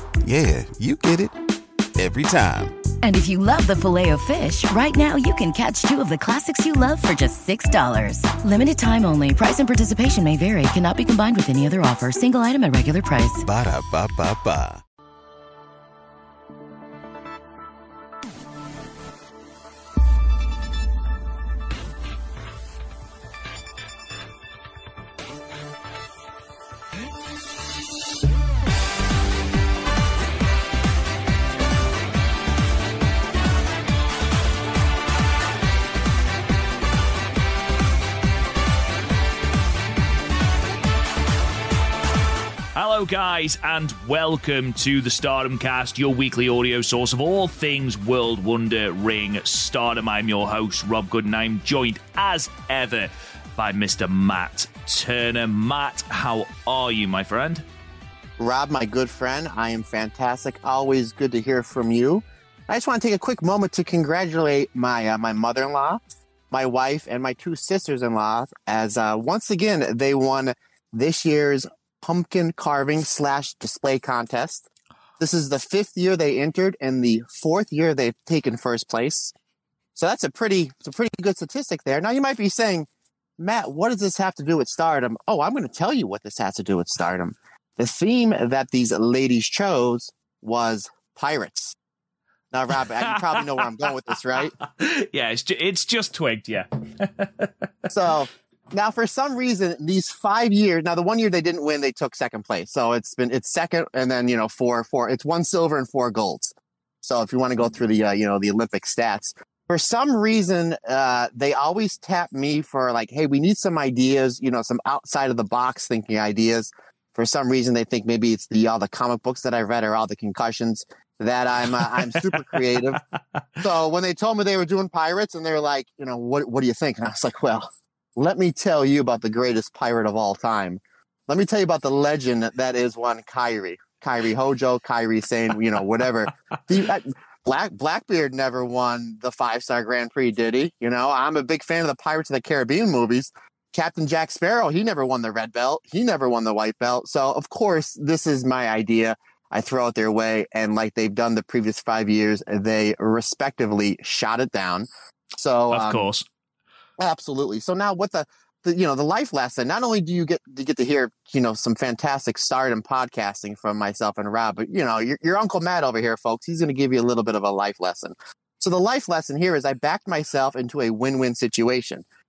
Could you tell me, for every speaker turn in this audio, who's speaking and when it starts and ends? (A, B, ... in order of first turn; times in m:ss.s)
0:00.2-0:01.4 A
0:01.9-0:02.8 A
0:03.0-0:13.4 B
0:13.4-0:14.8 A
0:42.7-0:57.6 C
0:58.4-1:14.7 D
1:15.2-1:19.3 D
1:19.9-1:22.9 D
1:23.4-1:31.8 D
1:32.5-1:34.5 D
1:33.0-1:33.6 C
1:34.4-1:37.6 C
1:37.9-2:03.0 D
2:02.0-2:02.8 C
2:03.6-2:34.9 D
2:35.4-2:36.0 D
2:35.7-2:36.2 C
2:37.0-2:52.0 D